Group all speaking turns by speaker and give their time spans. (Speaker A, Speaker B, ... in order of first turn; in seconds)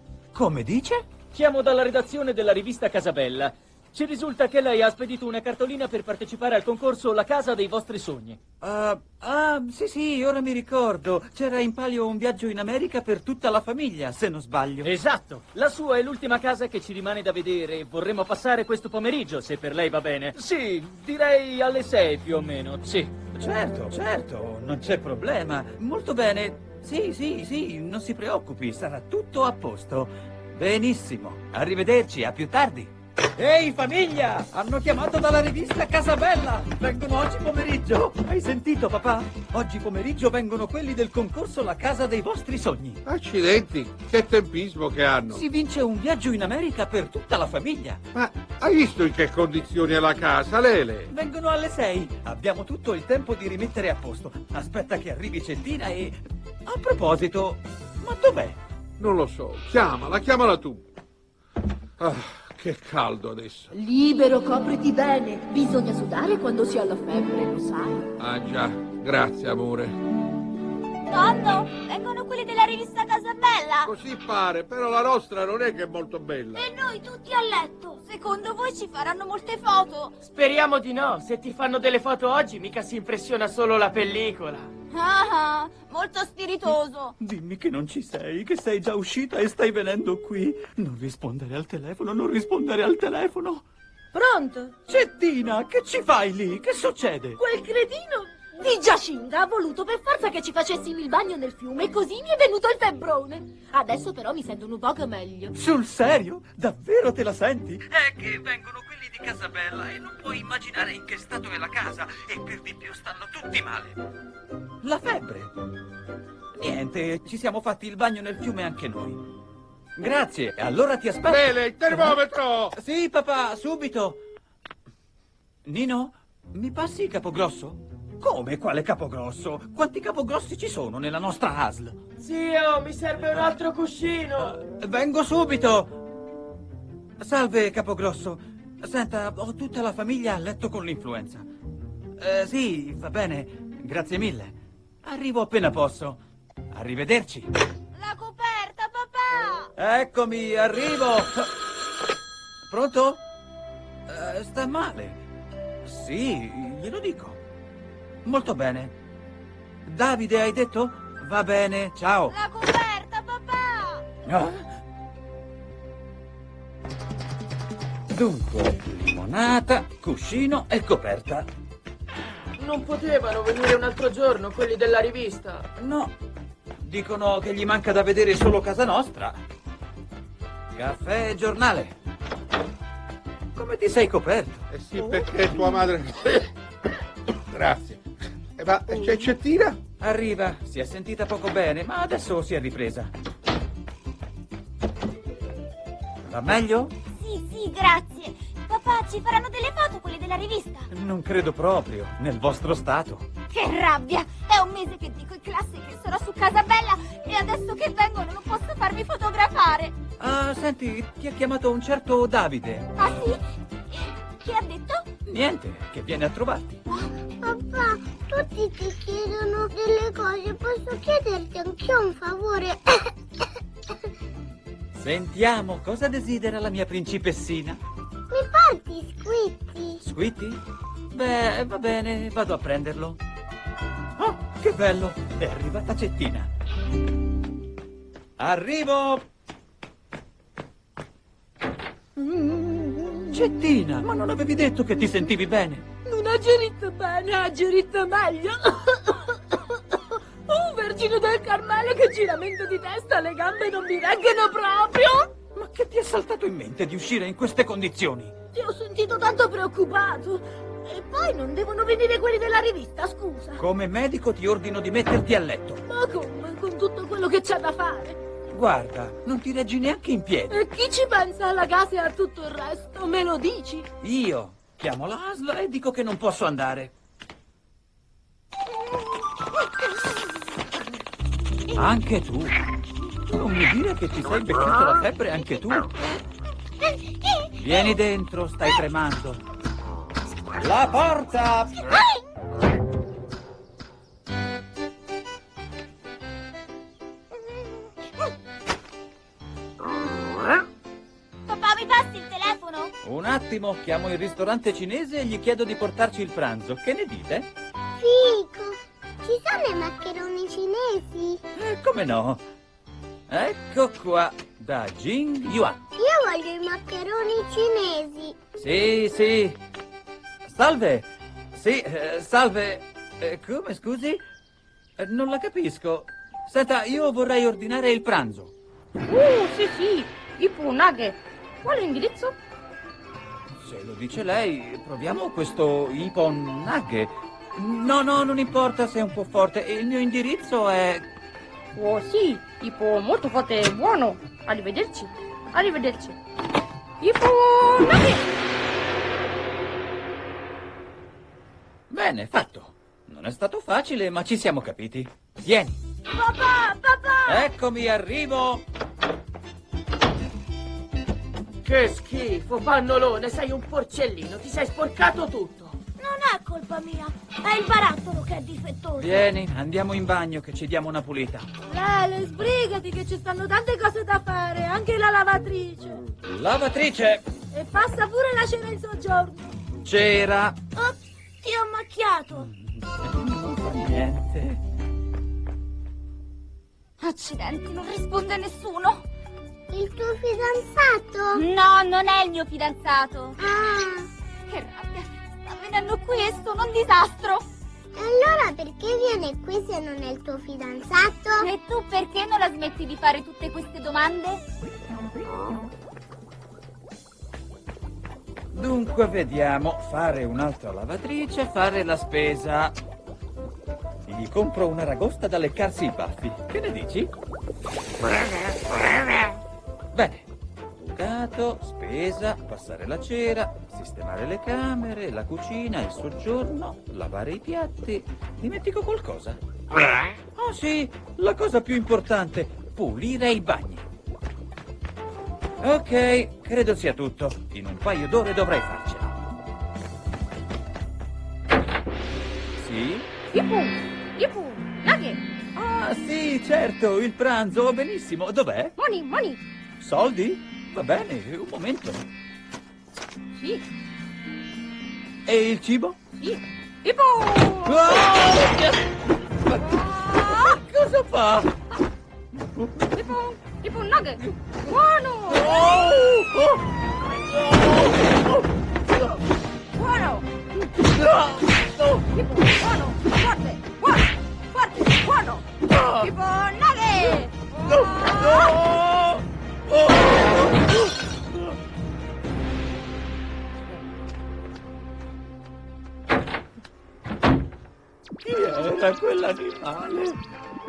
Speaker A: 0.3-1.1, 8.6-14.9, 23.3-43.0, 45.3-48.0, 51.1-58.6, 87.2-93.7, 94.9-97.4, 105.5-114.0, 114.8-115.5, 116.5-119.2, 120.0-122.2, 122.7-124.2, 125.7-132.0, 134.4-136.0, 137.2-141.5, 142.2-147.5, 149.8-151.5, 152.7-153.2, 154.1-155.2, 155.8-157.4, 158.2-158.9, 159.9-162.4, 164.2-164.7, 168.1-171.5, 175.8-176.1, 176.8-179.4, 180.7-182.0, 183.6-185.8, 190.0-193.1, 196.2-196.9, 200.9-203.3, 210.2-212.9, 215.2-216.8, 224.9-227.8, 230.0-233.2, 234.2-236.5, 238.4-239.2, 242.2-245.8, 255.5-258.4, 263.6-265.8, 268.5-270.6, 274.0-276.9, 281.7-282.6, 283.3-285.9, 287.6-289.4, 290.5-291.9, 303.0-307.5, 311.6-312.4, 313.3-315.8, 318.6-319.6, 320.4-324.2, 325.0-328.5, 333.6-341.1, 351.9-355.8, 357.3-358.7, 368.9-371.5, 376.2-377.2, 379.8-380.6, 382.4-384.6, 408.5-412.8, 414.1-417.1, 419.9-420.3, 420.8-429.4, 430.4-433.9, 435.6-439.2, 442.6-443.1, 445.6-448.8, 449.8-452.1, 455.2-456.0, 457.6-458.9, 459.4-461.6, 462.5-462.9, 465.3-469.2, 470.6-472.0, 475.7-476.1, 477.6-481.6, 488.2-490.2
Speaker B: 1.3-8.4, 14.8-23.1
Speaker C: 43.1-45.4, 48.1-51.1, 59.0-60.8, 62.0-63.7, 68.2-69.9, 73.8-76.7, 121.3-122.8, 184.7-186.5, 187.5-188.0, 188.6-189.8
Speaker D: 63.7-68.1, 94.1-94.7, 97.4-105.5, 246.1-255.3, 258.5-263.6, 265.9-268.2, 270.5-273.9, 371.7-376.0, 377.5-379.4
Speaker E: 71.1-73.9, 76.5-80.2, 84.9-87.1, 147.9-149.7, 162.3-164.1, 197.1-200.9, 203.5-210.0, 213.0-215.1, 301.5-302.9, 356.1-357.5, 366.0-369.3, 380.8-382.5, 387.0-389.0, 391.3-393.4, 394.5-397.5, 401.4-404.4
Speaker F: 80.2-84.7, 132.2-134.6, 172.6-175.7, 361.6-365.8
Speaker G: 217.4-223.1, 228.3-230.0, 308.0-311.4, 316.0-318.4, 389.7-391.4, 393.4-394.1, 398.0-401.5
Speaker H: 329.1-332.4, 341.8-346.2, 347.0-348.2, 443.3-445.2, 448.8-449.4, 453.4-453.6, 456.2-458.0, 460.2-460.6, 462.9-465.7, 469.8-470.2, 472.1-475.4, 476.0-478.4